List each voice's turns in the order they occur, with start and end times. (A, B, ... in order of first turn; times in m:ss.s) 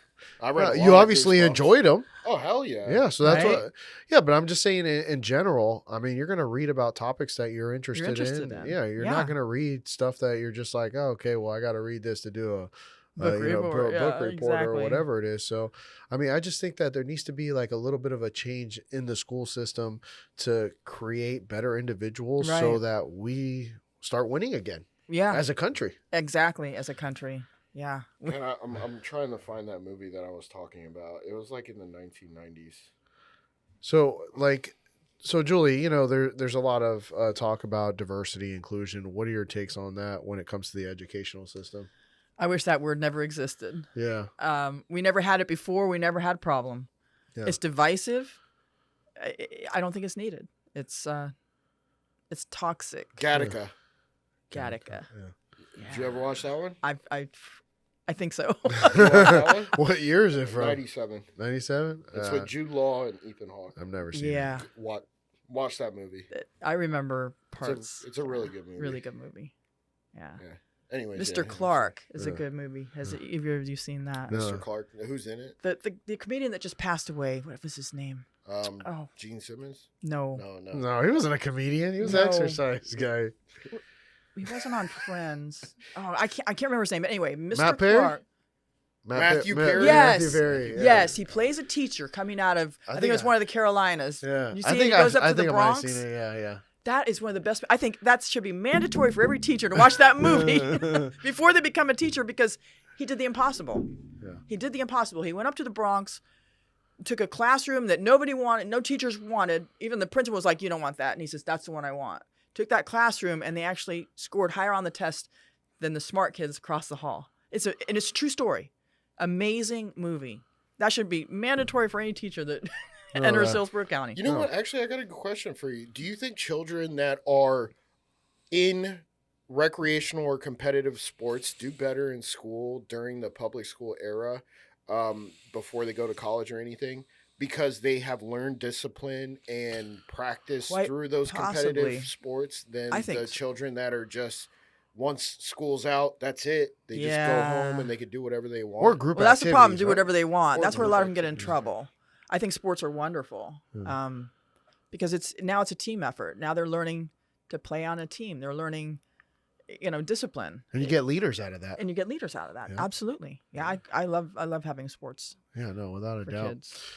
0:00.4-0:03.1 A
0:00.6-0:02.1 B
0:02.8-0:26.0 B
0:03.2-0:03.6 C
0:08.0-0:09.4 C
0:13.2-0:15.0 C
0:22.4-0:22.8 C
0:25.1-0:25.4 C
0:26.1-0:28.4 C
0:28.2-0:32.9 A
0:33.8-0:41.9 B
0:42.4-0:46.9 C
0:44.0-0:44.3 B
0:47.4-0:48.4 C
0:49.2-0:51.3 C
0:52.3-0:53.3 C
0:53.2-0:53.7 A
0:54.5-0:55.3 B
0:54.5-0:55.1 C
0:55.8-0:59.7 C
0:55.8-0:56.8 A
0:58.8-1:00.8 B
0:58.9-0:59.8 A
1:00.4-1:01.3 A
1:01.4-1:02.5 B
1:02.1-1:03.8 A
1:03.8-1:04.6 B
1:04.1-1:04.7 C
1:04.6-1:06.3 A
1:06.3-1:09.5 C
1:07.6-1:09.0 A
1:10.1-1:10.4 C
1:10.4-1:11.9 A
1:11.2-1:14.5 C
1:12.2-1:12.4 B
1:14.3-1:15.6 A
1:14.3-1:14.6 B
1:15.6-1:19.1 C
1:18.4-1:20.8 A
1:20.0-1:20.4 C
1:20.7-1:23.3 B
1:22.0-1:22.6 C
1:24.4-1:28.2 C
1:27.5-1:28.2 B
1:29.0-1:31.2 B
1:29.1-1:31.4 A
1:29.7-1:36.0 C
1:32.9-1:33.3 B
1:34.2-1:36.6 B
1:36.8-1:46.2 C
1:40.2-1:41.1 B
1:47.0-2:04.2 C
2:03.2-2:03.6 B
2:04.2-2:07.7 A
2:04.2-2:04.5 B
2:08.5-2:29.0 A
2:20.7-2:22.1 C
2:22.9-2:23.4 C
2:26.9-2:28.0 C
2:28.8-2:30.1 B
2:29.1-2:34.3 C
2:30.5-2:31.7 A
2:30.8-2:31.5 B
2:34.9-2:39.0 C
2:39.7-2:41.0 C
2:40.7-2:41.8 B
2:41.8-2:45.4 C
2:45.5-2:46.6 B
2:46.2-2:46.8 C